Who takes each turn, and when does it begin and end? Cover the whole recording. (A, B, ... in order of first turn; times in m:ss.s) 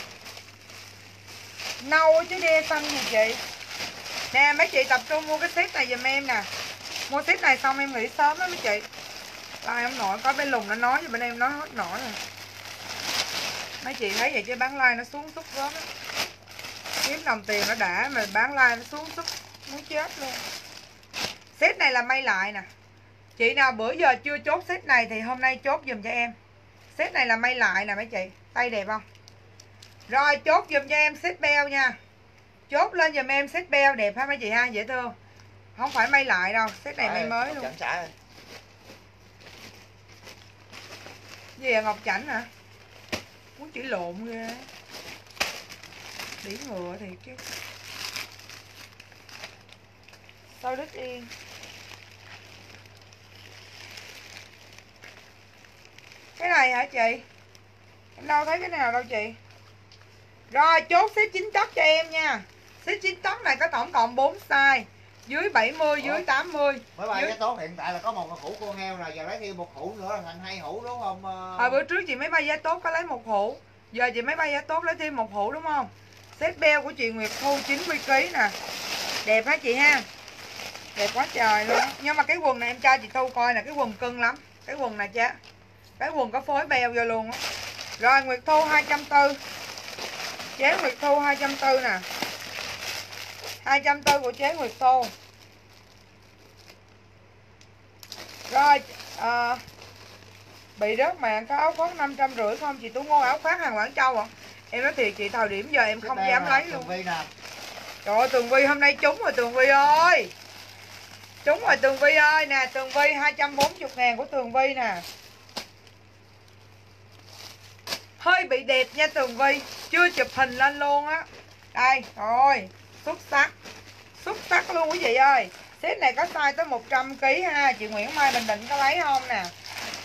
0:01.8-0:03.4 A
0:04.3-0:06.5 A
0:07.1-0:08.9 A
0:09.6-0:12.2 A
0:13.8-0:15.9 A
0:17.0-0:20.4 A
0:21.6-0:22.7 A
0:23.4-0:26.3 A
0:26.9-0:29.0 A
0:30.1-0:32.0 A
0:32.7-0:35.1 A
0:35.8-0:37.7 A
0:37.0-0:38.1 B
0:41.6-0:42.5 A
0:43.6-0:44.7 A
0:46.4-0:47.4 A
0:50.6-0:51.3 A
0:56.4-0:57.2 A
0:58.2-0:59.4 A
1:00.5-1:07.4 A
1:06.0-1:06.3 B
1:06.9-1:11.8 B
1:11.6-1:18.5 A
1:19.2-1:20.1 A
1:21.0-1:25.4 A
1:26.0-1:27.4 A
1:28.0-1:29.4 A
1:30.6-1:32.0 A
1:33.6-1:35.1 A
1:38.5-1:39.6 A
1:40.8-1:46.9 A
1:45.9-1:47.3 B
1:48.0-1:50.3 A
1:51.4-1:55.0 A
1:58.2-2:03.5 A
2:04.2-2:09.5 A